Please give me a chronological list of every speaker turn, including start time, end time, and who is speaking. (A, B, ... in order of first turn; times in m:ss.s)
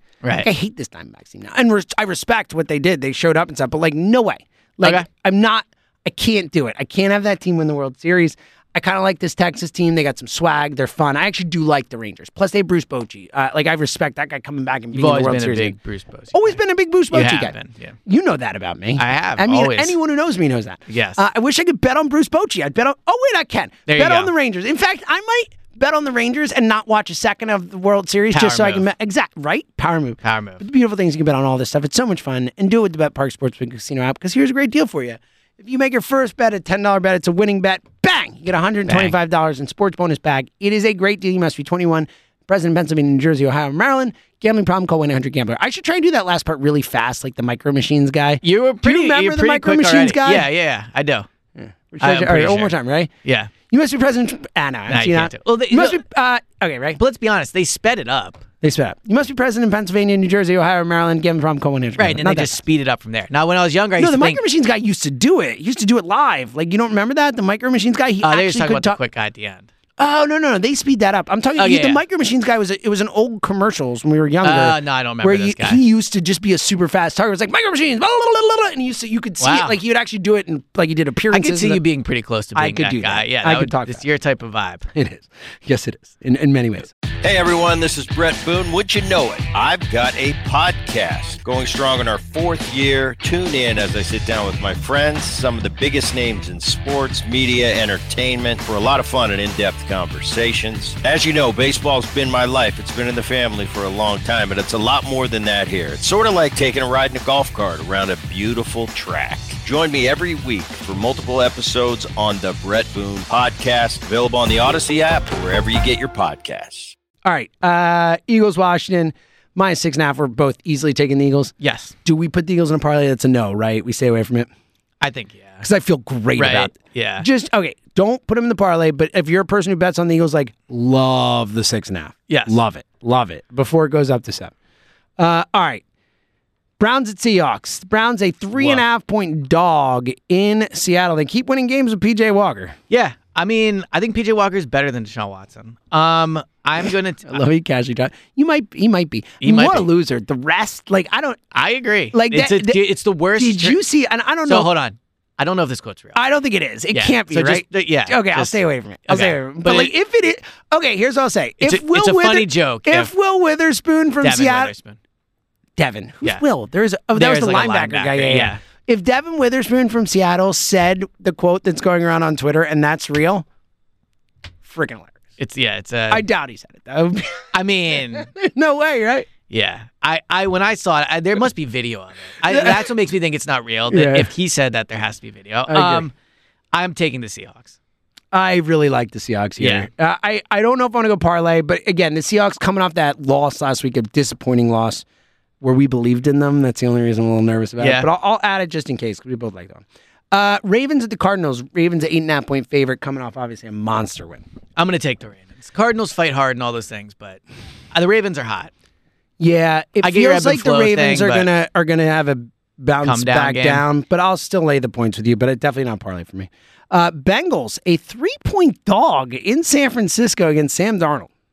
0:00.2-0:00.5 A
0:00.4-0:15.8 B
0:14.9-0:16.6 A
0:16.3-0:17.5 B
0:17.1-0:18.0 A
0:18.1-0:50.5 B
0:19.0-0:20.0 A
0:20.9-0:21.2 A
0:23.9-0:24.3 A
0:28.3-0:28.8 A
0:30.2-0:30.6 A
0:38.9-0:39.1 A
0:48.4-0:51.3 A
0:51.6-0:53.1 B
0:52.0-0:52.7 A
0:53.2-0:53.5 A
0:53.7-0:57.0 B
0:54.9-0:56.0 A
0:57.0-0:58.4 A
0:58.6-1:02.6 B
1:02.0-1:04.4 A
1:04.0-1:09.0 B
1:08.2-1:09.7 A
1:10.0-1:21.8 B
1:11.6-1:12.0 A
1:14.4-1:15.8 A
1:19.4-1:19.8 A
1:21.3-1:24.9 A
1:22.6-1:24.0 B
1:25.0-1:26.9 B
1:27.2-1:57.0 C
1:57.2-2:01.5 B
2:01.6-2:01.9 A
2:02.0-2:04.5 B
2:05.0-2:05.6 A
2:05.6-2:14.5 B
2:06.4-2:07.3 A
2:12.3-2:12.6 A
2:15.2-2:15.8 B
2:16.8-2:22.8 B
2:18.6-2:18.8 A
2:22.9-2:27.4 A
2:27.3-2:31.4 B
2:29.4-2:29.9 A
2:31.5-2:33.8 A
2:32.1-2:32.8 B
2:33.4-2:34.7 B
2:34.5-2:36.2 A
2:36.2-2:44.7 B
2:36.9-2:39.9 A
2:41.6-2:43.1 A
2:44.2-2:45.0 A
2:45.8-2:53.4 B
2:47.1-2:48.6 A
2:54.6-2:55.2 B
2:55.4-2:56.2 A
2:56.1-2:57.5 B
2:57.5-2:58.3 A
2:58.1-2:59.3 B
2:59.5-3:06.1 A
3:02.4-3:02.9 B
3:03.9-3:04.3 B
3:05.7-3:06.1 B
3:06.7-3:07.8 A
3:08.3-3:15.0 B
3:09.6-3:09.9 A
3:15.6-3:24.4 B
3:17.8-3:18.1 A
3:24.8-3:27.4 A
3:27.9-3:28.7 A
3:29.4-3:41.3 B
3:30.0-3:31.5 A
3:33.0-3:33.8 A